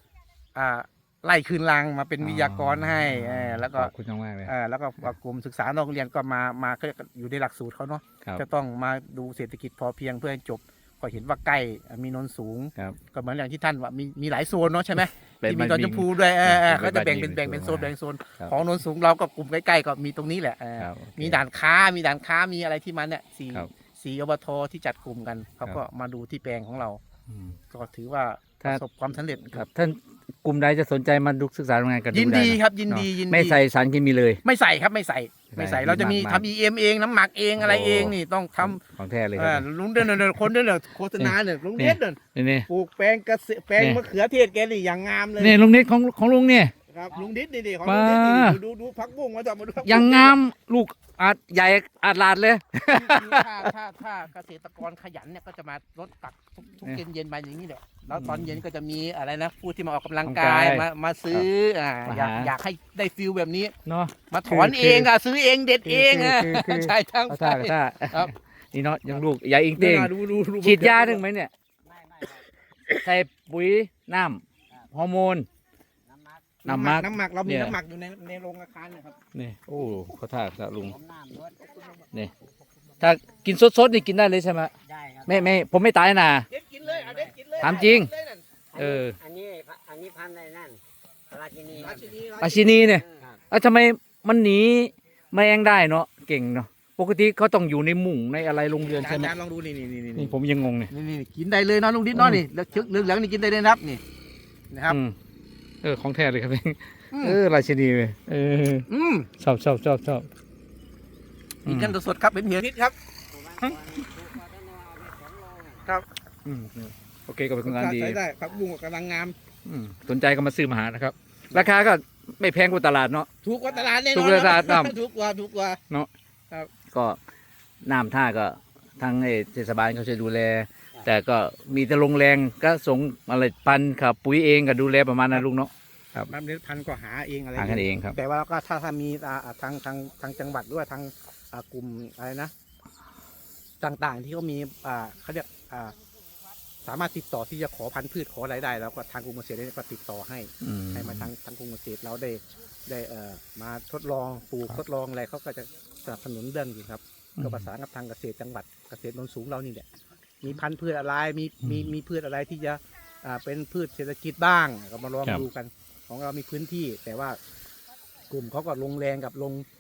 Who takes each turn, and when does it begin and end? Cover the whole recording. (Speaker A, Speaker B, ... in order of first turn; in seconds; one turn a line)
Speaker A: 0.6-3.9
Speaker B: 2.2-4.5
Speaker A: 4.5-27.0
Speaker B: 15.4-18.6
Speaker B: 20.8-21.4
Speaker B: 27.3-27.6
Speaker A: 27.7-29.6
Speaker B: 29.5-34.4
Speaker A: 32.1-33.6
Speaker A: 34.4-38.8
Speaker B: 35.5-36.5
Speaker B: 37.6-40.2
Speaker A: 39.4-45.6
Speaker B: 41.2-42.7
Speaker B: 45.4-46.7
Speaker A: 46.9-50.4
Speaker B: 47.8-48.6
Speaker B: 49.8-53.5
Speaker A: 52.9-63.8
Speaker B: 58.1-58.6
Speaker B: 60.2-61.5
Speaker B: 62.1-62.5
Speaker B: 63.9-65.1
Speaker A: 64.3-68.3
Speaker B: 65.8-71.5
Speaker A: 69.1-71.2
Speaker C: 72.0-72.4
Speaker B: 73.0-75.5
Speaker C: 76.1-76.5
Speaker A: 76.6-79.2
Speaker B: 76.7-77.8
Speaker B: 79.3-81.0
Speaker C: 80.9-81.5
Speaker A: 81.6-82.0
Speaker B: 83.0-84.7
Speaker C: 84.9-85.5
Speaker B: 85.3-86.5
Speaker A: 86.5-88.4
Speaker B: 87.6-88.1
Speaker B: 88.8-89.2
Speaker C: 88.8-90.8
Speaker C: 91.3-92.0
Speaker A: 91.7-92.8
Speaker B: 92.4-99.3
Speaker A: 98.8-100.3
Speaker B: 100.2-100.9
Speaker A: 100.9-104.0
Speaker B: 102.2-102.4
Speaker A: 104.7-105.0
Speaker B: 104.9-105.2
Speaker B: 105.8-108.9
Speaker A: 107.1-107.4
Speaker A: 108.9-109.3
Speaker B: 109.4-110.3
Speaker A: 111.7-113.0
Speaker B: 111.7-112.0
Speaker C: 113.3-115.8
Speaker B: 116.5-118.2
Speaker A: 117.6-119.3
Speaker B: 119.7-123.3
Speaker A: 123.4-125.8
Speaker B: 124.1-125.0
Speaker B: 126.9-127.2
Speaker B: 127.8-136.3
Speaker A: 136.3-142.5
Speaker B: 137.6-138.2
Speaker A: 143.8-145.9
Speaker A: 146.8-159.9
Speaker B: 150.6-151.3
Speaker B: 157.4-157.7
Speaker A: 160.4-167.4
Speaker B: 161.6-161.9
Speaker A: 168.3-169.7